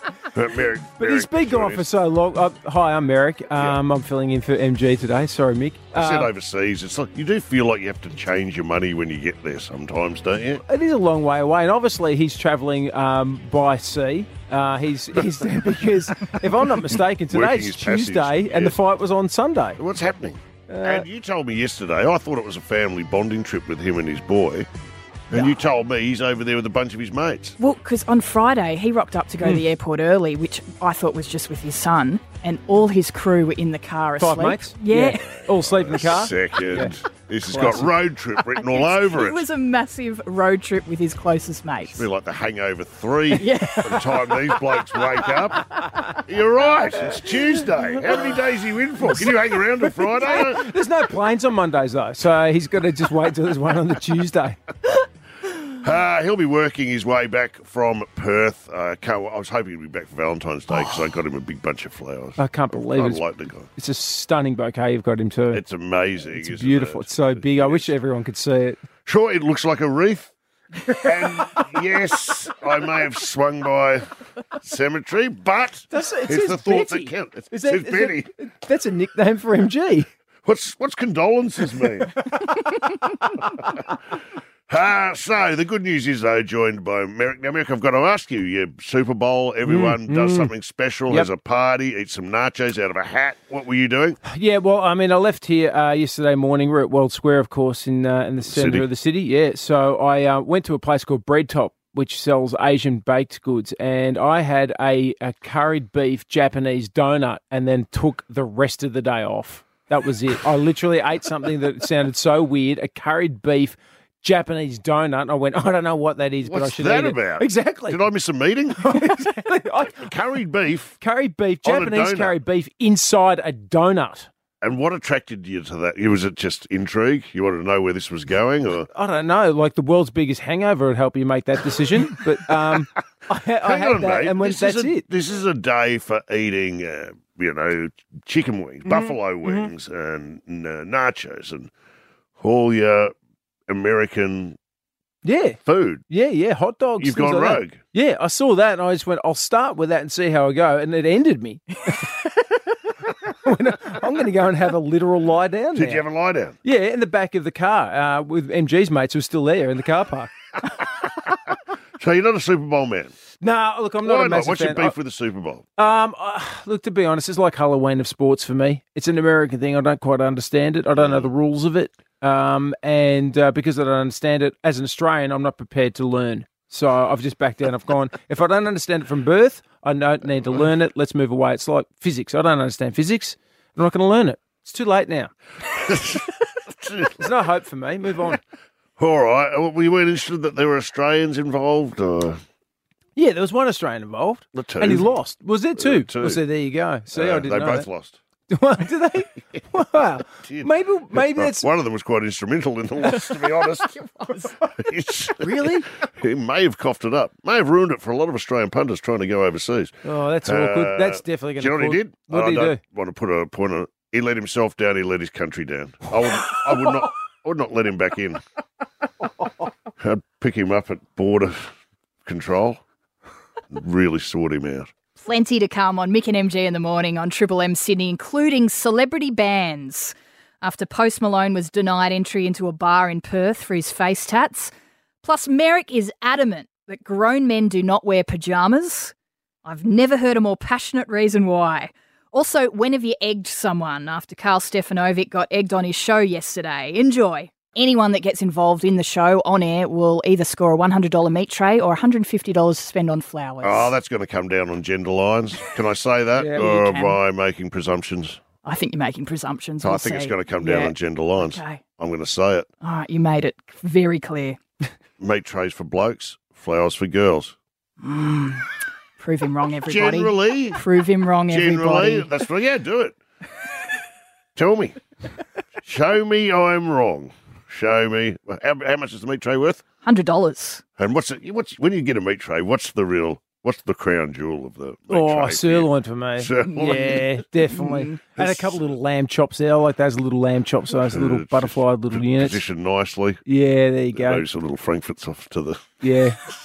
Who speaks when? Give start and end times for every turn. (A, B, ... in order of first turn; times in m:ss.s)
0:00.3-0:01.8 A
0:01.0-0:06.3 B
0:05.9-0:10.6 A
0:10.7-0:19.8 B
0:17.3-0:18.8 A
0:19.8-0:24.7 A
0:20.7-0:21.0 B
0:25.3-0:27.6 A
0:27.6-0:35.2 C
0:34.2-0:36.9 B
0:35.2-0:39.5 A
0:37.5-0:37.9 B
0:38.5-0:42.0 C
0:41.9-0:45.6 A
0:43.4-0:44.1 C
0:46.2-0:50.6 A
0:49.8-0:54.6 B
0:55.7-1:03.7 A
1:02.4-1:03.2 B
1:03.8-1:05.6 B
1:05.5-1:07.9 A
1:06.3-1:08.8 B
1:09.0-1:10.3 A
1:11.0-1:14.1 A
1:14.6-1:18.3 A
1:15.9-1:20.1 B
1:20.4-1:22.1 A
1:23.6-1:23.8 A
1:24.7-1:34.2 A
1:29.6-1:30.5 B
1:34.2-1:58.0 B
1:38.4-1:38.8 A
1:56.4-1:58.9 A
1:58.8-2:00.0 B
1:59.9-2:01.0 A
2:01.0-2:04.3 B
2:01.6-2:02.4 A
2:04.6-2:08.9 A
2:08.9-2:15.0 B
2:13.6-2:21.7 A
2:18.9-2:19.7 B
2:22.4-2:23.1 A
2:23.7-2:24.6 A
2:25.2-2:25.6 B
2:25.6-2:26.0 A
2:26.1-2:32.3 B
2:27.0-2:27.8 A
2:33.3-2:36.0 B
2:35.7-2:36.6 A
2:36.6-2:40.3 B
2:42.0-2:43.1 A
2:43.4-2:45.0 B
2:44.0-2:45.6 A
2:45.8-3:05.3 B
2:51.0-2:51.3 A
3:05.7-3:07.2 A
3:07.2-3:08.4 B
3:09.0-3:12.4 A
3:13.2-3:17.8 B
3:14.5-3:15.1 A
3:15.8-3:16.4 A
3:17.1-3:18.2 A
3:18.5-3:21.6 B
3:20.4-3:38.4 A
3:25.4-3:25.8 B
3:30.0-3:32.8 B
3:40.0-3:41.7 A
3:42.2-3:42.8 A
3:43.7-3:44.9 A
3:45.2-3:59.1 C
3:59.6-4:13.9 C
4:13.6-4:18.4 A
4:16.4-4:16.7 B
4:16.6-4:17.2 C
4:18.6-4:21.8 C
4:19.8-4:22.7 A
4:22.8-4:24.6 C
4:25.2-4:27.5 A
4:28.0-4:28.6 C
4:29.2-4:32.3 C
4:29.8-4:30.8 A
4:31.5-4:33.2 A
4:34.5-4:35.0 A
4:35.8-4:39.8 A
4:40.0-4:40.8 C
4:41.0-4:47.2 A
4:45.1-4:52.6 B
4:47.7-4:48.2 C
4:48.4-4:48.9 A
4:51.0-4:53.4 A
4:53.5-4:54.4 B
4:54.1-4:55.8 A
4:56.0-4:56.4 B